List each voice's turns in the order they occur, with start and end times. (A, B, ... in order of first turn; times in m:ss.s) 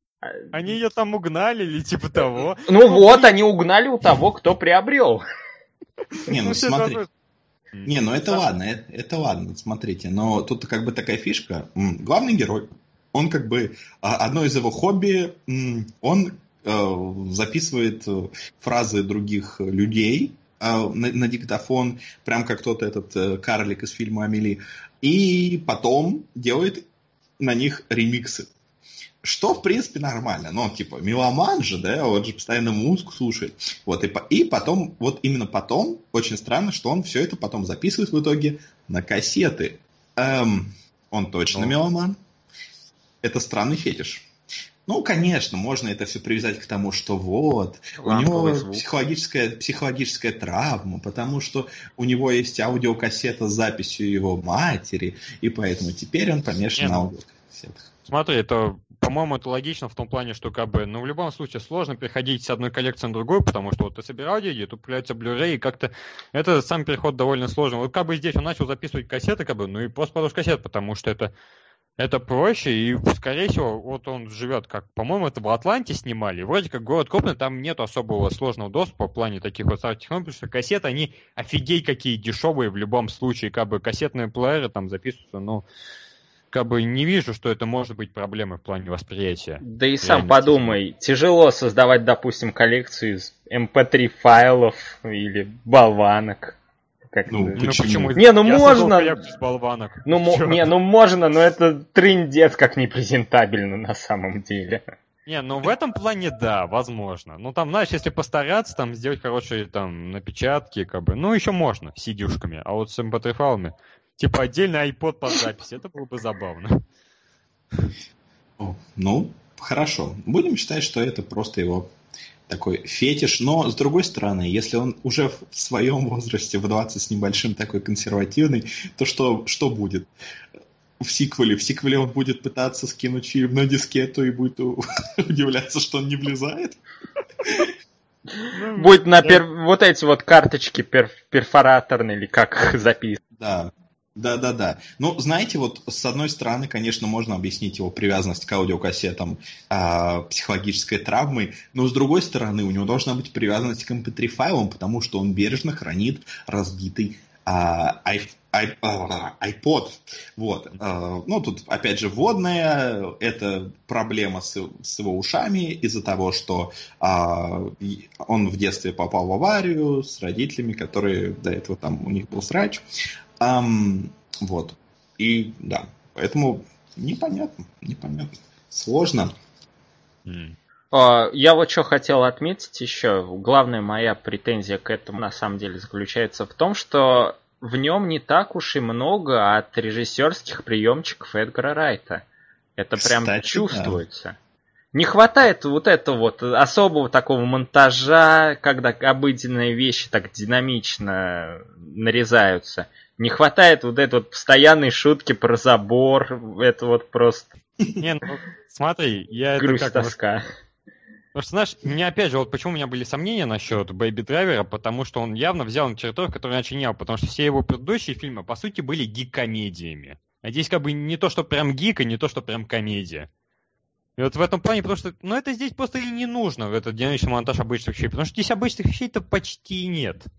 0:00.5-0:03.4 A
0:02.7-0:05.2 B
0:06.2-0:07.1 A
0:06.3-0:07.0 C
0:07.7-0:08.4 A
0:07.8-0:26.9 C
0:27.4-0:28.5 C
0:29.2-0:42.2 C
0:43.2-0:44.3 C
0:44.9-0:57.9 C
0:48.0-0:48.8 B
0:56.8-0:57.0 A
0:58.1-1:11.3 A
1:12.0-1:25.7 A
1:26.5-1:30.8 A
1:29.6-1:36.6 B
1:37.1-1:39.2 B
1:37.3-1:38.2 C
1:37.6-1:40.7 A
1:40.0-1:44.8 B
1:45.3-1:56.8 A
1:58.6-2:01.9 C
2:02.5-2:10.1 C
2:11.0-2:16.8 C
2:17.4-2:17.7 C
2:18.5-2:19.4 A
2:18.8-2:23.2 B
2:23.4-2:52.9 C
2:53.4-2:59.3 C
3:00.3-3:00.6 A
3:00.9-3:12.2 B
3:12.8-3:14.4 B
3:13.0-3:14.0 C
3:14.9-3:27.6 B
3:28.0-3:30.2 A
3:29.6-3:30.4 B
3:31.4-3:43.3 A
3:44.2-3:50.3 A